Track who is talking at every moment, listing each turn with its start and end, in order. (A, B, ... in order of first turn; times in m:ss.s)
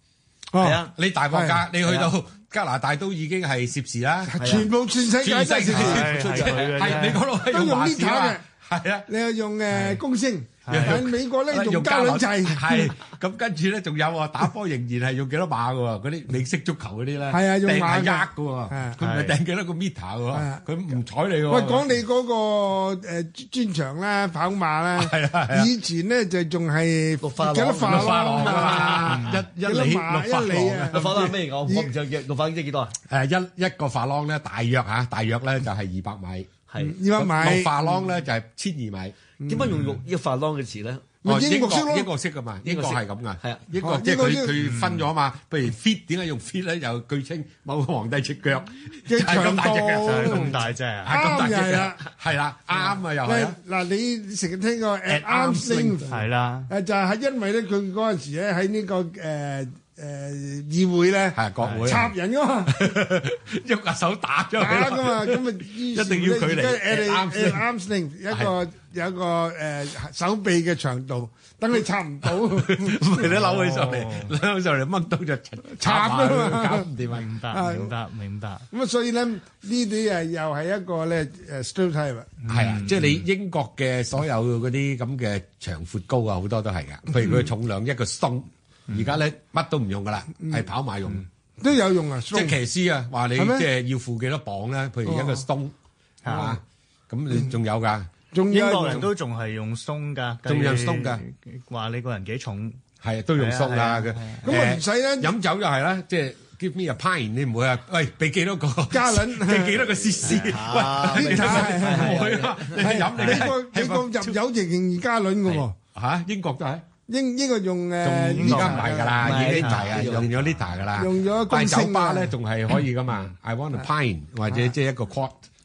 0:00.5-0:01.6 A
0:00.6-0:00.9 B
0:01.0-0:09.1 C
0:01.8-0:02.1 B
0:04.3-0:06.1 A
0:04.4-0:04.7 B
0:05.7-0:07.2 D
0:05.7-0:06.8 B
0:07.4-0:08.4 A
0:09.1-0:12.9 A
0:09.7-0:10.0 D
0:10.7-0:11.0 D
0:10.7-0:21.9 C
0:17.3-0:19.0 A
0:19.0-0:19.4 D
0:20.3-0:20.6 A
0:21.5-0:31.9 A
0:25.0-0:25.7 C
0:27.2-0:29.0 B
0:27.8-0:31.4 C
0:29.1-0:29.4 D
0:30.9-0:33.0 B
0:33.1-0:36.5 C
0:36.7-0:37.0 B
0:36.8-0:37.9 A
0:37.2-0:39.2 C
0:39.4-0:39.8 A
0:39.5-0:41.0 B
0:39.7-0:40.0 D
0:41.2-0:42.1 A
0:41.2-0:53.6 C
0:42.6-0:43.6 B
0:43.7-0:44.6 A
0:44.6-0:45.1 D
0:49.1-0:52.1 A
0:50.0-0:51.2 D
0:53.2-1:02.8 A
0:55.1-0:56.0 C
0:56.1-0:56.7 D
1:01.4-1:02.1 C
1:01.6-1:02.0 D
1:02.7-1:07.7 C
1:04.6-1:13.3 A
1:08.3-1:08.6 C
1:12.2-1:17.3 C
1:13.2-1:14.3 D
1:15.8-1:16.9 A
1:17.1-1:18.7 D
1:17.5-1:17.9 A
1:18.7-1:22.4 A
1:22.4-1:23.2 D
1:22.5-1:31.3 C
1:31.6-1:32.6 A
1:32.3-1:35.7 C
1:33.4-1:33.7 A
1:35.1-1:35.4 A
1:36.2-1:36.6 D
1:36.3-1:38.1 C
1:36.3-1:36.6 A
1:38.3-1:39.1 A
1:38.5-1:42.8 D
1:40.5-1:41.2 C
1:43.0-1:54.4 C
1:43.4-1:44.4 D
1:44.4-1:45.3 A
1:48.9-1:49.9 A
1:50.2-1:53.0 B
1:51.1-1:52.2 A
1:52.8-1:55.7 A
1:53.2-1:53.5 D
1:55.5-1:56.8 C
1:57.1-1:59.5 A
1:58.0-2:05.4 C
1:58.4-2:00.3 D
1:59.2-2:00.3 B
2:01.0-2:02.3 A